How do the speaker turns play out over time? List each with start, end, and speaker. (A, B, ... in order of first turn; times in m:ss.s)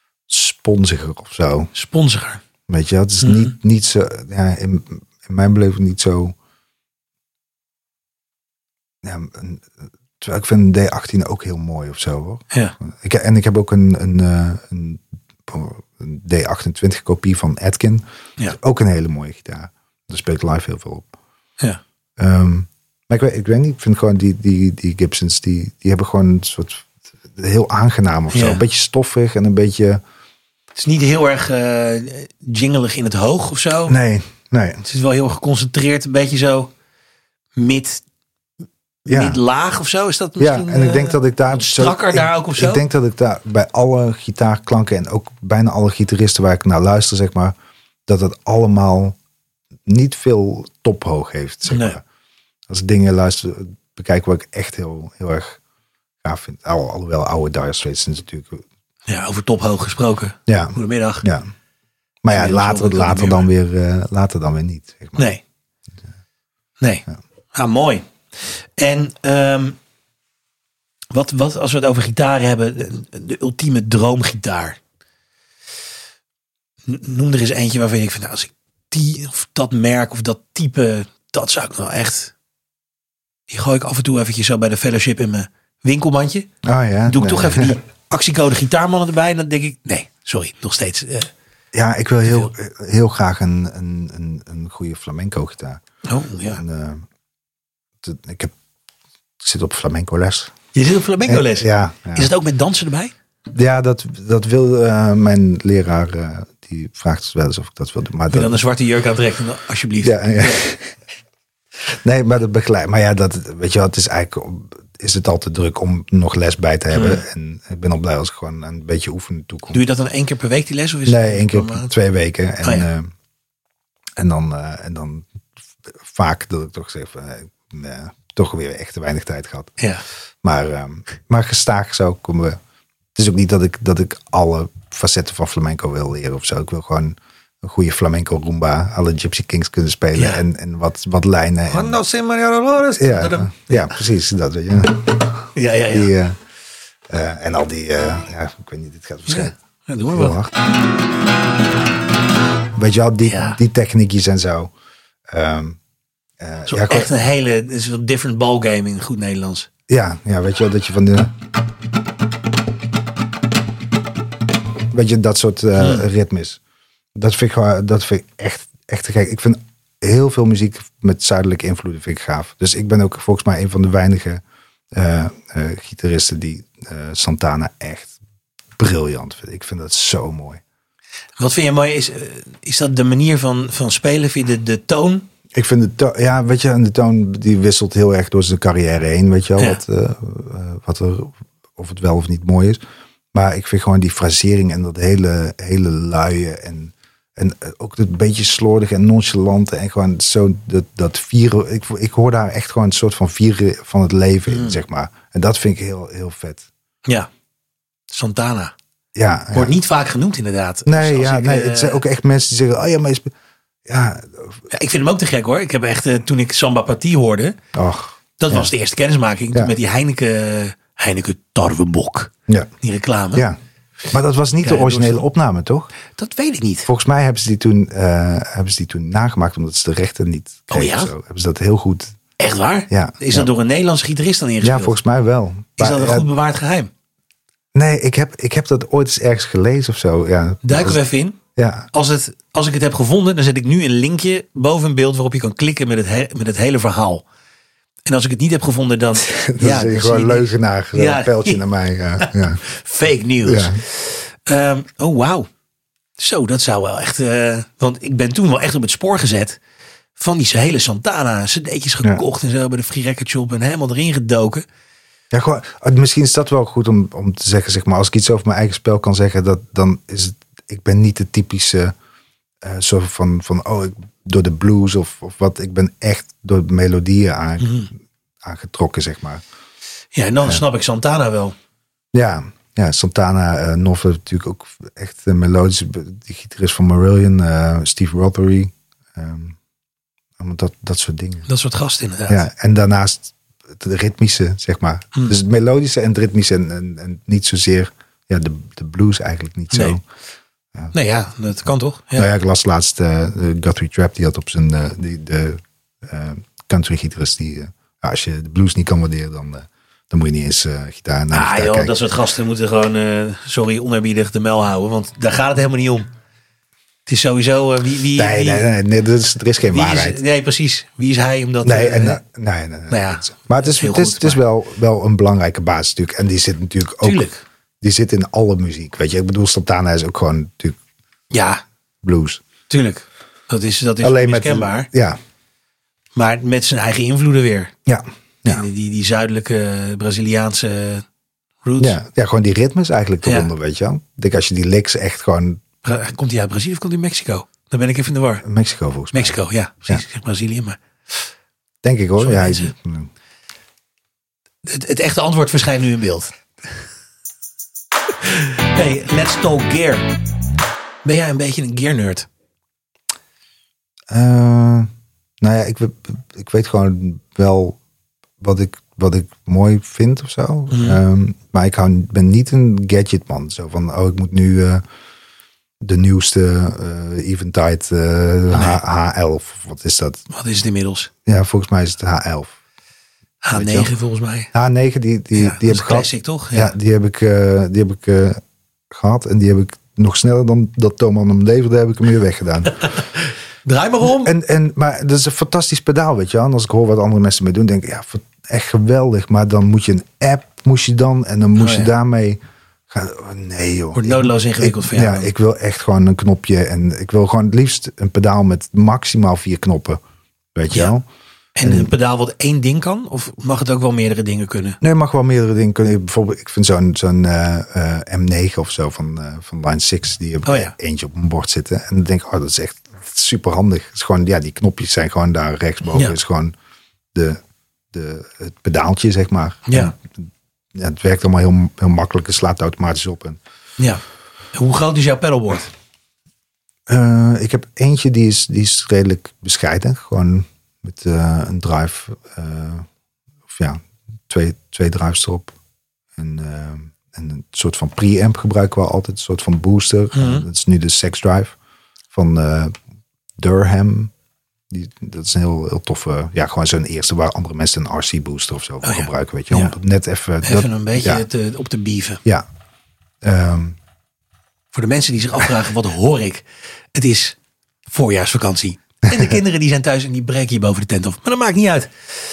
0:00.3-0:01.7 A
0:01.7-0:02.4 B
0:02.7-0:06.4 A
0:03.2-0:03.5 B
0:09.0-0:21.1 A
0:22.2-0:30.0 A
0:28.3-0:28.6 B
0:30.8-0:34.0 B
0:33.9-0:34.8 A
0:34.8-0:36.7 B
0:37.6-0:38.0 B
0:39.1-0:39.4 A
0:39.1-0:42.8 B
0:40.4-0:47.6 A
0:48.1-0:49.2 A
0:49.9-0:52.0 A
0:51.7-0:52.0 B
0:52.7-0:55.6 A
0:56.2-0:58.7 A
0:59.1-1:01.3 B
1:00.5-1:01.5 A
1:02.2-1:05.3 A
1:02.3-1:03.5 B
1:05.2-1:05.4 B
1:06.8-1:08.1 B
1:08.8-1:09.8 B
1:11.1-1:14.8 B
1:16.9-1:22.3 B
1:23.5-1:26.5 B
1:26.6-1:27.8 A
1:27.1-1:31.3 B
1:31.7-1:35.8 A
1:36.0-1:36.6 B
1:36.5-1:37.0 A
1:38.0-1:38.5 A
1:39.4-1:40.6 A
1:40.7-1:43.1 B
1:41.2-1:42.3 A
1:43.5-1:48.6 A
1:48.3-1:50.6 B
1:50.0-1:51.0 A
1:51.9-1:59.8 A
1:56.9-1:57.2 B
1:59.7-2:01.9 B
2:01.1-2:03.1 A
2:02.6-2:02.9 B
2:04.2-2:05.3 A
2:05.9-2:09.8 A
2:10.4-2:12.6 A
2:13.2-2:22.0 A
2:20.2-2:20.4 B
2:21.7-2:24.0 B
2:23.0-2:26.4 A
2:25.5-2:26.1 B
2:27.1-2:29.5 A
2:29.3-2:30.4 B
2:30.1-2:30.5 A
2:32.8-2:34.7 A
2:33.2-2:33.6 B
2:35.3-2:35.8 A
2:36.4-2:37.1 A
2:36.7-2:39.7 B
2:39.9-2:41.3 A
2:44.9-2:46.6 A
2:45.8-2:46.1 B
2:47.2-2:58.2 A
2:58.8-3:00.6 A
3:01.4-3:05.3 B
3:05.5-3:12.8 A
3:13.3-3:26.7 A
3:24.5-3:24.8 B
3:28.1-3:28.7 B
3:29.2-3:29.7 A
3:29.5-3:32.0 B
3:30.9-3:33.3 A
3:33.9-3:34.6 A
3:34.7-3:37.6 B
3:37.7-3:38.7 A
3:38.4-3:43.5 B
3:44.1-3:45.9 A
3:44.6-3:45.2 B
3:46.1-3:46.9 B
3:46.9-3:52.2 A
3:50.7-3:51.1 B
3:52.4-3:55.0 B
3:52.9-3:53.5 A
3:54.6-3:56.3 A
3:55.8-3:56.9 B
3:57.7-4:01.0 A
4:00.6-4:01.4 B
4:01.6-4:01.9 A
4:01.9-4:07.2 B
4:08.1-4:11.6 B
4:09.2-4:12.6 A
4:12.2-4:15.5 B
4:13.4-4:13.8 A
4:16.2-4:19.6 B
4:20.2-4:24.6 B
4:25.3-4:31.9 A
4:32.6-4:37.9 A
4:37.6-4:37.9 B
4:38.4-4:39.4 A
4:40.1-4:41.6 B
4:42.1-4:49.6 A
4:50.4-4:51.5 A
4:51.5-4:52.5 B
4:52.3-5:00.0 A
4:59.7-5:00.0 B
5:00.9-5:02.3 B
5:02.2-5:11.9 A
5:11.3-5:16.1 B
5:17.1-5:18.7 B
5:18.2-5:20.2 A
5:19.6-5:22.2 B
5:21.6-5:27.3 A
5:22.9-5:24.4 B
5:27.0-5:27.4 B
5:27.8-5:30.8 A
5:31.3-5:31.6 B
5:32.0-5:32.4 A
5:32.7-5:34.9 B
5:34.0-5:35.2 A
5:36.2-5:37.7 B
5:37.9-5:38.6 A
5:38.4-5:41.0 B
5:41.6-5:42.0 B
5:41.8-5:45.6 A
5:43.2-5:43.5 B
5:45.8-5:48.4 B
5:48.4-5:49.4 A
5:49.1-5:51.2 B
5:51.8-5:53.1 A
5:52.2-5:52.7 B
5:54.6-5:56.3 B
5:58.2-6:00.1 B
6:01.0-6:02.3 B
6:04.1-6:04.9 A
6:05.4-6:07.8 A
6:08.4-6:14.8 A
6:10.7-6:11.0 B
6:15.8-6:20.2 A
6:18.5-6:18.8 B
6:20.3-6:21.1 B
6:21.2-6:22.6 A
6:23.4-6:24.5 B
6:23.5-6:23.9 A
6:24.5-6:32.8 A
6:25.4-6:26.7 B
6:32.8-6:34.3 B
6:34.1-6:42.4 A
6:41.6-6:41.9 B
6:42.9-6:50.0 A
6:44.0-6:45.3 B
6:50.6-6:51.0 A
6:51.6-6:54.8 B
6:51.6-6:51.9 A
6:54.8-7:06.6 A
7:00.4-7:00.7 B
7:07.1-7:07.4 A
7:07.9-7:13.4 A
7:09.7-7:10.0 B
7:13.8-7:14.0 B
7:14.5-7:15.7 B
7:16.9-7:22.9 A
7:23.5-7:25.6 A
7:26.2-7:31.6 A
7:30.1-7:30.5 B
7:32.1-7:32.7 A
7:33.4-7:34.1 A
7:34.7-7:41.2 A
7:38.8-7:39.8 B
7:40.4-7:42.2 B
7:43.2-7:43.8 A
7:44.7-7:51.9 B
7:49.1-7:49.4 A